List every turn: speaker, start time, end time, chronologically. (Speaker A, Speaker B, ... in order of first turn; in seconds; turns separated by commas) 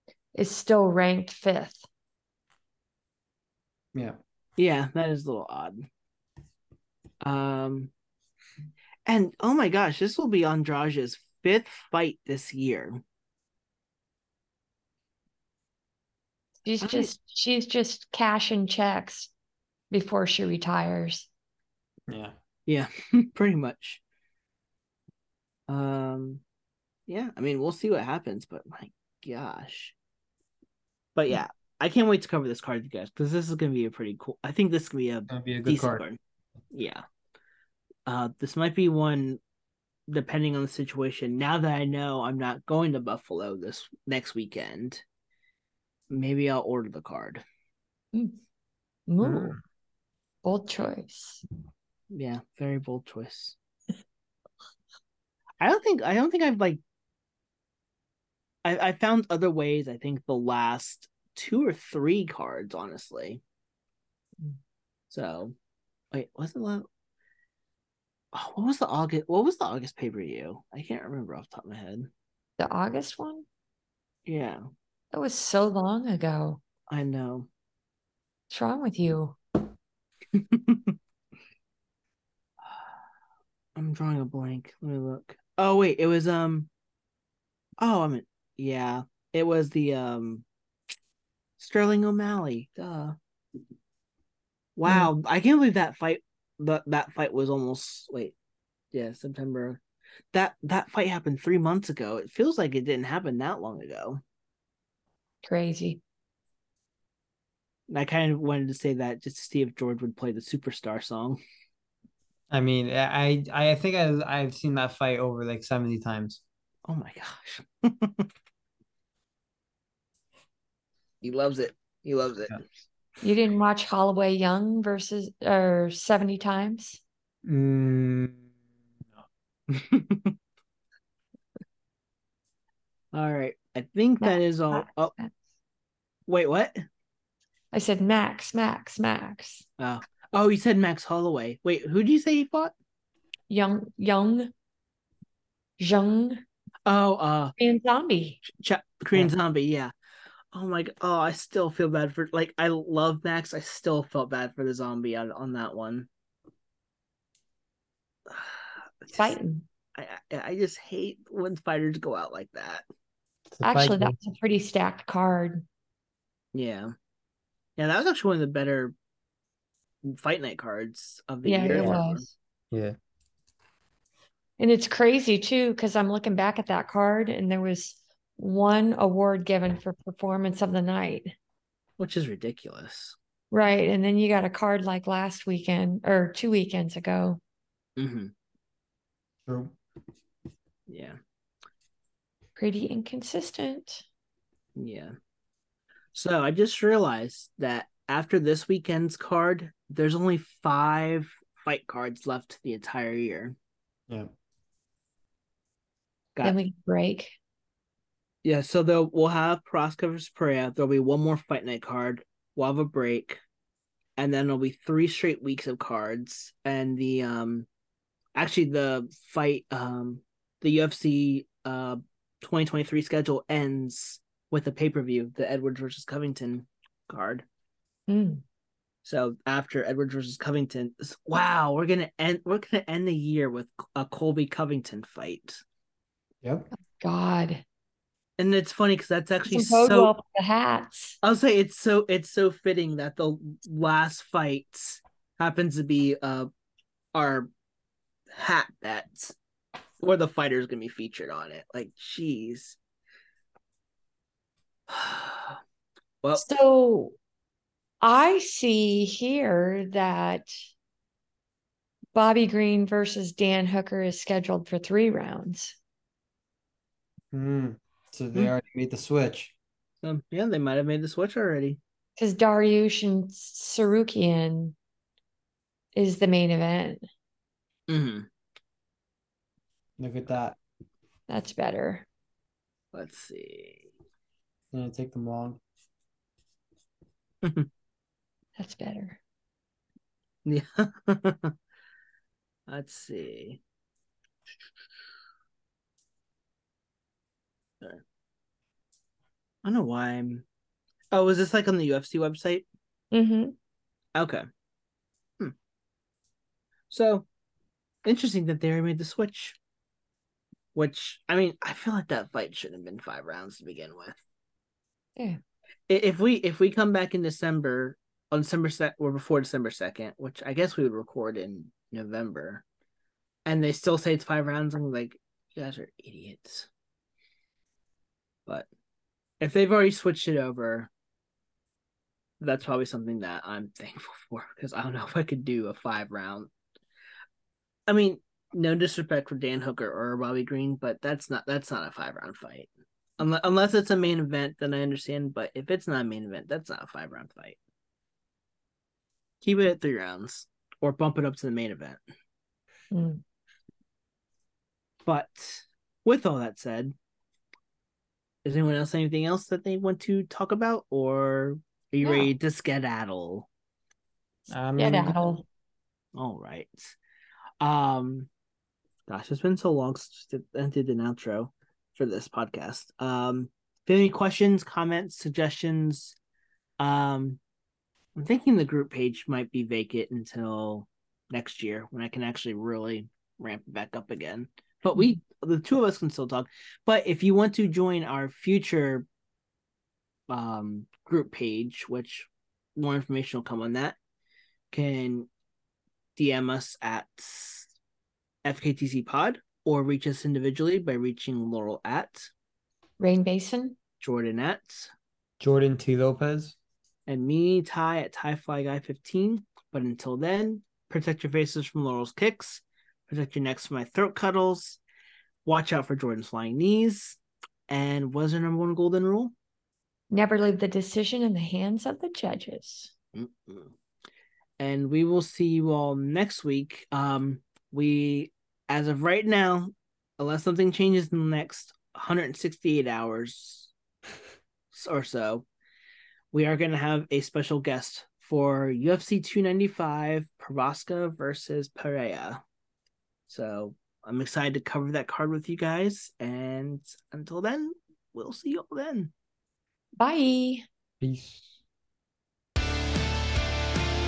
Speaker A: 0.3-1.9, Speaker B: 4.6-5.8, Speaker B: 7.2-7.9, Speaker B: 9.1-13.0, Speaker A: 16.6-19.3, Speaker B: 16.8-17.1, Speaker A: 19.9-21.3, Speaker C: 22.1-22.3, Speaker B: 22.7-24.0, Speaker B: 25.7-26.4, Speaker B: 27.1-29.9, Speaker B: 31.1-36.2, Speaker C: 35.3-36.0, Speaker B: 36.7-37.0, Speaker B: 38.1-39.4, Speaker B: 40.1-45.0, Speaker B: 46.1-47.4, Speaker A: 48.1-48.4, Speaker A: 49.1-49.6, Speaker C: 49.2-49.6, Speaker A: 50.4-51.4, Speaker B: 52.1-53.5, Speaker B: 55.6-56.8, Speaker B: 58.6-63.4, Speaker B: 65.1-65.5, Speaker B: 66.1-66.9, Speaker B: 68.3-72.1, Speaker A: 72.6-73.5, Speaker B: 74.2-74.6, Speaker A: 75.1-76.6, Speaker B: 76.9-77.5, Speaker A: 78.5-79.4, Speaker B: 80.3-80.9, Speaker B: 83.8-86.7, Speaker B: 87.8-90.4, Speaker B: 91.6-93.2, Speaker B: 94.8-98.3, Speaker B: 98.9-99.8, Speaker B: 100.3-104.2, Speaker A: 105.4-106.0, Speaker B: 107.9-111.4, Speaker C: 112.5-116.4, Speaker B: 116.9-118.3, Speaker B: 121.2-122.6, Speaker A: 123.2-127.0, Speaker C: 127.4-128.4, Speaker B: 129.7-130.3, Speaker B: 133.1-135.1, Speaker A: 134.2-135.3, Speaker B: 136.3-136.8, Speaker A: 137.7-139.6, Speaker B: 139.8-142.7, Speaker A: 143.5-144.5, Speaker A: 145.8-146.4, Speaker B: 146.8-147.5, Speaker A: 147.6-148.4, Speaker B: 148.4-149.9, Speaker B: 150.5-156.1, Speaker B: 158.3-159.3, Speaker A: 159.1-159.6, Speaker B: 159.9-162.8, Speaker C: 163.5-164.2, Speaker A: 163.6-165.6, Speaker B: 166.5-166.9, Speaker B: 167.8-168.9, Speaker B: 170.0-172.2, Speaker A: 171.4-172.3, Speaker C: 171.7-172.0, Speaker C: 172.7-172.9, Speaker A: 174.6-181.3, Speaker B: 182.0-183.2, Speaker A: 183.5-187.4, Speaker B: 188.0-188.3, Speaker C: 189.4-189.7, Speaker B: 190.9-191.2, Speaker A: 192.6-194.0, Speaker B: 194.8-195.1, Speaker B: 196.1-203.6, Speaker A: 206.4-207.3, Speaker B: 208.4-213.4, Speaker B: 214.2-217.7, Speaker B: 218.3-227.4, Speaker A: 228.1-228.4, Speaker B: 229.0-235.6, Speaker A: 237.0-237.6, Speaker B: 238.4-240.1, Speaker A: 239.5-241.2, Speaker B: 241.2-246.5, Speaker B: 247.1-247.5, Speaker B: 248.3-249.3, Speaker B: 250.0-252.8, Speaker B: 254.9-255.6, Speaker A: 256.4-257.1, Speaker A: 258.0-260.5, Speaker A: 262.1-265.8, Speaker C: 267.3-269.5, Speaker B: 270.0-271.8, Speaker A: 272.2-274.8, Speaker A: 275.9-277.0, Speaker B: 277.9-278.3, Speaker C: 280.0-280.6, Speaker A: 281.3-282.1, Speaker B: 282.9-283.9, Speaker C: 284.7-285.6, Speaker B: 287.4-287.7, Speaker A: 288.6-289.2, Speaker B: 290.4-291.5, Speaker B: 292.7-293.6, Speaker B: 299.6-300.4, Speaker B: 301.1-302.6, Speaker A: 303.1-303.5, Speaker B: 304.1-304.4, Speaker B: 306.9-307.2, Speaker B: 308.0-309.6, Speaker B: 310.7-314.2, Speaker B: 315.9-322.6, Speaker B: 323.4-326.7, Speaker B: 329.4-330.9, Speaker B: 332.4-336.5, Speaker B: 337.9-342.7, Speaker B: 343.2-347.6, Speaker B: 349.4-352.0, Speaker A: 352.9-353.2, Speaker B: 355.0-356.9, Speaker B: 358.4-363.5, Speaker A: 362.0-362.3, Speaker C: 364.5-365.4, Speaker A: 364.8-365.4, Speaker B: 366.1-366.9, Speaker B: 367.6-368.3, Speaker B: 369.1-376.1, Speaker B: 376.8-377.4, Speaker B: 378.1-389.1, Speaker B: 390.3-394.0, Speaker B: 394.7-395.3, Speaker B: 396.1-397.7, Speaker B: 398.4-402.3, Speaker A: 403.0-403.8, Speaker B: 404.0-404.9, Speaker C: 405.4-406.6, Speaker B: 407.1-414.8, Speaker B: 415.4-417.2, Speaker B: 417.7-419.3, Speaker A: 420.1-422.9, Speaker B: 423.1-423.7, Speaker B: 424.6-433.7, Speaker B: 434.7-435.4, Speaker B: 436.3-442.4, Speaker B: 443.3-449.1, Speaker A: 450.0-450.6, Speaker C: 451.0-451.5